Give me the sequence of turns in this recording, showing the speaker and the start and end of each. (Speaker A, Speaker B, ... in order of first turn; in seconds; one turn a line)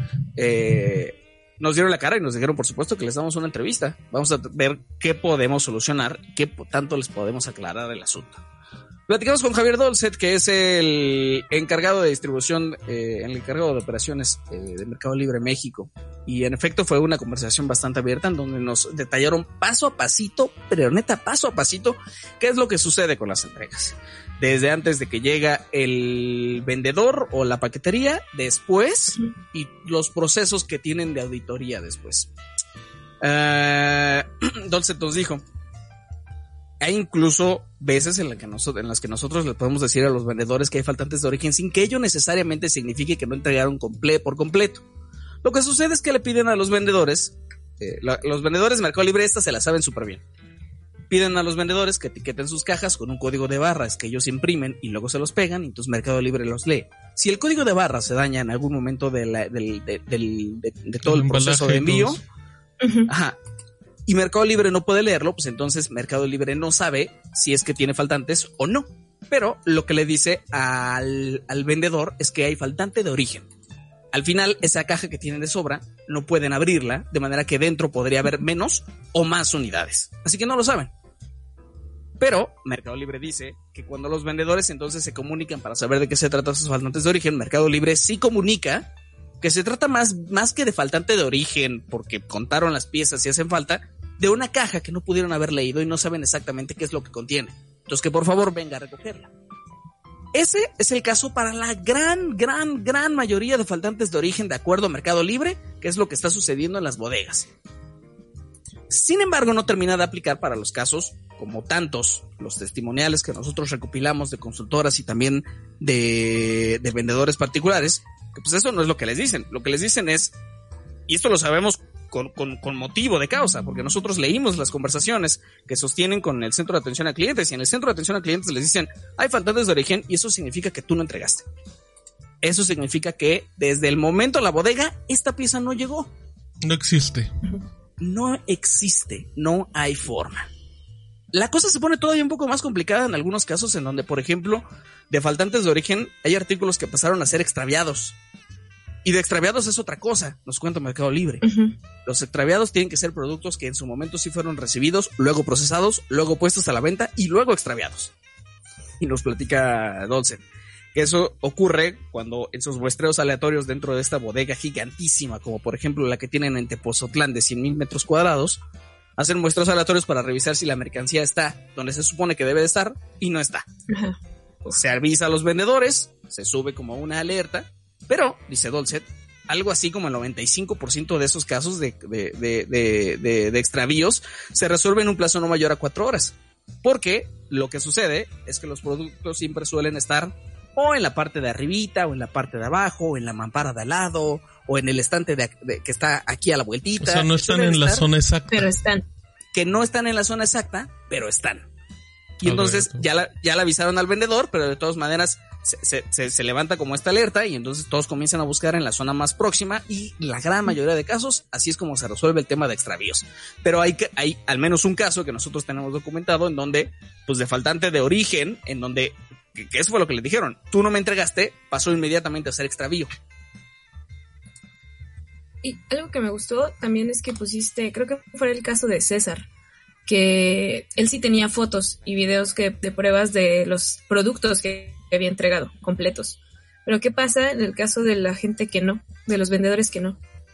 Speaker A: 0.4-8.4
Speaker A: 9.1-32.3
Speaker A: 33.2-35.4
Speaker A: 36.8-44.9
Speaker A: 45.4-50.2
Speaker A: 51.1-62.2
Speaker B: 61.1-62.2
Speaker C: 62.8-63.1
Speaker A: 63.1-63.4
Speaker A: 64.1-73.5
Speaker A: 74.1-80.9
Speaker A: 82.2-88.9
Speaker A: 89.4-99.3
Speaker A: 100.3-107.5
Speaker A: 108.9-120.3
Speaker A: 121.1-131.5
Speaker A: 132.4-136.1
Speaker B: 136.6-137.3
Speaker A: 138.0-140.5
Speaker A: 141.3-148.2
Speaker A: 149.0-151.5
Speaker C: 151.4-151.7
Speaker A: 152.1-158.1
Speaker A: 159.0-160.4
Speaker A: 160.9-168.6
Speaker A: 169.2-173.6
Speaker C: 173.9-174.8
Speaker A: 174.7-198.1
Speaker B: 197.0-198.7
Speaker C: 198.5-199.0
Speaker A: 199.5-201.7
Speaker A: 202.4-223.1
Speaker B: 202.4-203.0
Speaker C: 225.6-229.4
Speaker C: 230.1-240.2